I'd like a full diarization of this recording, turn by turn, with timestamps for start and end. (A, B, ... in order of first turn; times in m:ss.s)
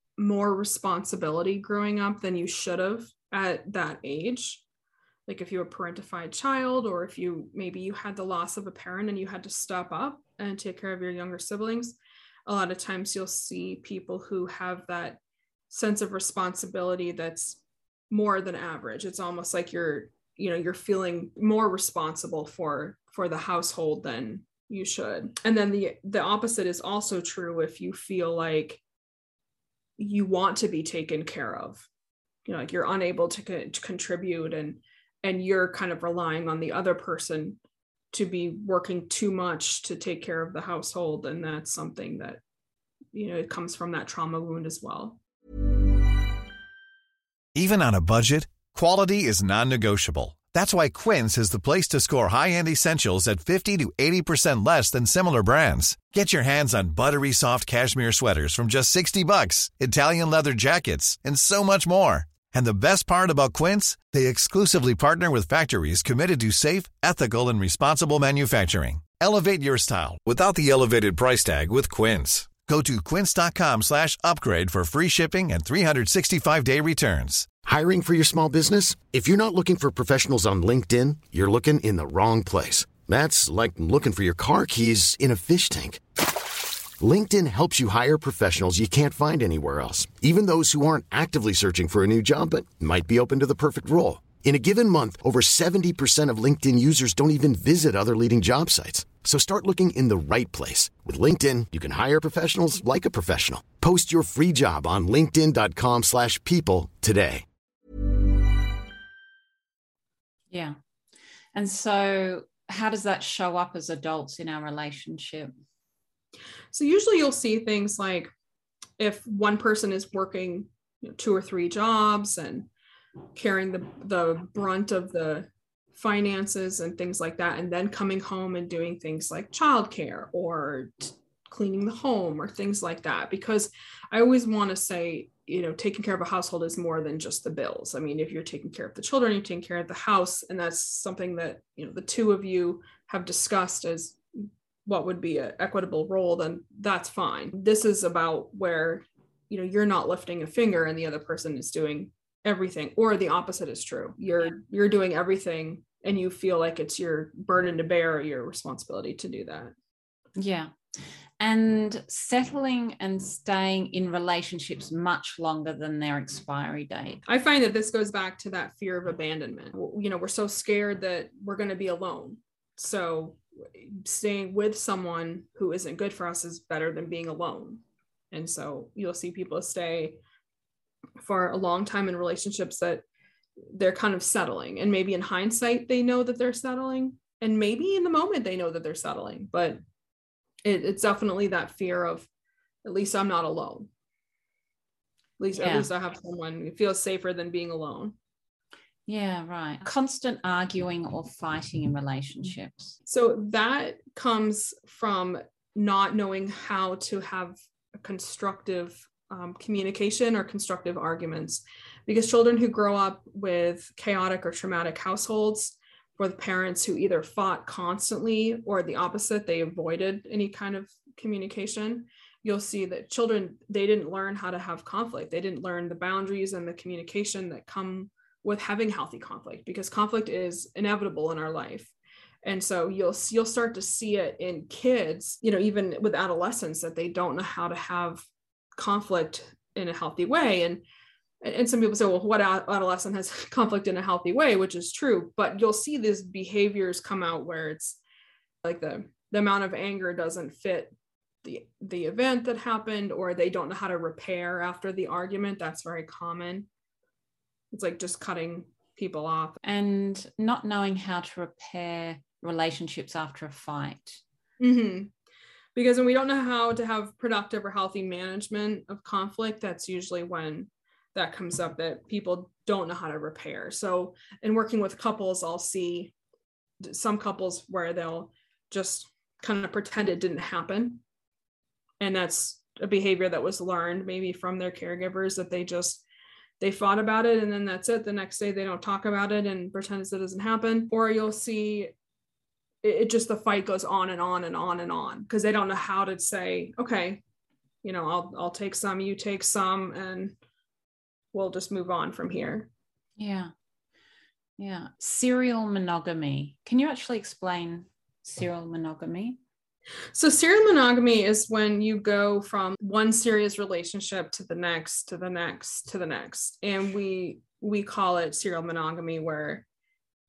0:00.2-0:04.6 A
0:05.3-0:15.2 A
0:15.7-0:28.8 A
0:30.0-0:31.8 A
0:32.4-0:37.6 A
0:38.1-0:42.4 A
0:43.1-0:45.2 A
0:47.6-1:17.5 B
1:17.6-1:26.0 C
1:27.0-1:47.4 C
1:50.5-1:50.8 D
1:51.5-1:55.5 D
1:56.7-1:58.3 A
1:59.0-2:02.7 A
2:03.3-2:39.7 A
2:40.4-2:47.2 D
2:47.3-3:00.2 A
3:01.2-3:03.0 A
3:03.6-3:09.8 A
3:10.6-3:12.3 A
3:12.8-3:13.9 A
3:15.4-3:18.1 A
3:15.6-3:15.9 D
3:19.1-3:23.0 D
3:23.1-3:51.9 A
3:52.4-4:00.8 A
4:01.4-4:08.0 A
4:08.6-4:10.9 A
4:11.4-4:16.7 A
4:17.7-4:19.6 A
4:19.6-4:24.2 D
4:24.6-4:25.1 A
4:25.7-4:36.1 A
4:36.8-4:41.0 A
4:42.0-4:46.0 A
4:46.6-4:51.9 A
4:52.8-4:57.2 A
4:57.8-5:00.4 A
5:01.3-5:02.7 A
5:03.2-5:03.5 D
5:04.6-5:09.4 D
5:10.1-5:19.6 A